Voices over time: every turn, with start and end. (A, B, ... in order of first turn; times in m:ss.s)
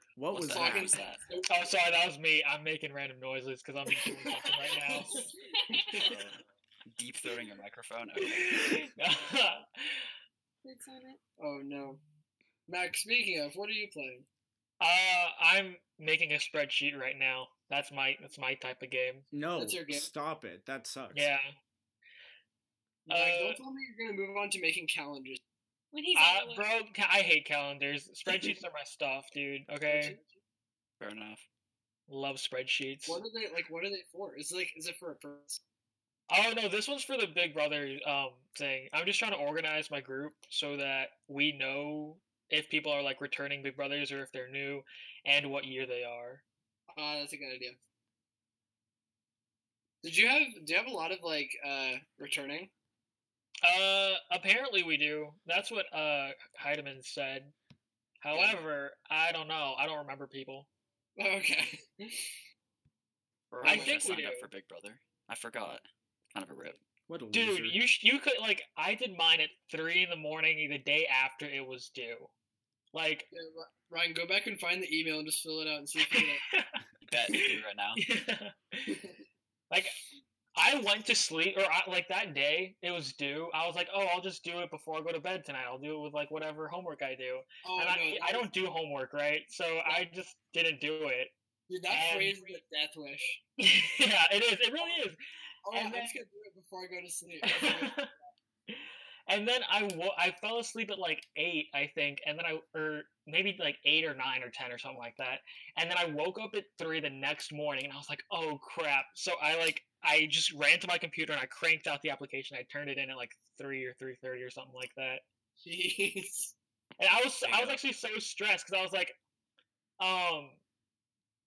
0:00.2-0:00.9 A
0:00.3-0:01.2 B
0:00.4-0:01.8 C
0:01.5-0:05.2 D
0:04.6-0:05.3 C
0:05.6-0:06.1 E
0:05.9-0:08.7 B
0:08.4-0:10.1 D
0:10.6-0:11.2 E
0:11.4-0:12.0 C
0:12.7-0:14.3 C
0:14.8-0:19.2 D
0:19.3-0:21.3 A
0:19.6-0:20.1 C
0:21.1-0:21.5 D
0:23.1-0:25.4 C
0:23.1-0:23.6 D
0:25.9-0:26.7 E
0:26.2-0:30.2 D
0:28.3-0:28.5 C
0:29.9-0:30.3 C
0:31.0-0:31.4 B
0:32.1-0:33.2 D
0:33.1-0:35.6 C
0:36.3-0:46.4 D
0:46.9-0:47.8 C
0:50.0-0:52.7 C
0:53.6-0:57.5 D
0:58.2-1:00.7 D
0:58.3-0:58.6 C
1:01.2-1:02.3 C
1:03.5-1:06.8 B
1:03.6-1:04.2 C
1:03.6-1:04.5 D
1:07.1-1:07.8 A
1:07.3-1:12.3 D
1:12.9-1:13.3 D
1:13.3-1:16.4 C
1:16.1-1:16.8 D
1:17.0-1:18.0 B
1:17.3-1:19.0 D
1:18.9-1:19.2 C
1:19.7-1:20.0 D
1:20.6-1:31.3 D
1:27.6-1:28.5 C
1:31.7-1:33.4 C
1:31.9-1:32.4 D
1:33.6-1:36.2 D
1:35.7-1:38.1 C
1:37.4-1:38.1 D
1:38.7-1:55.2 D
1:55.6-1:56.5 C
1:57.0-1:59.2 D
1:57.4-1:57.8 B
2:00.0-2:00.6 D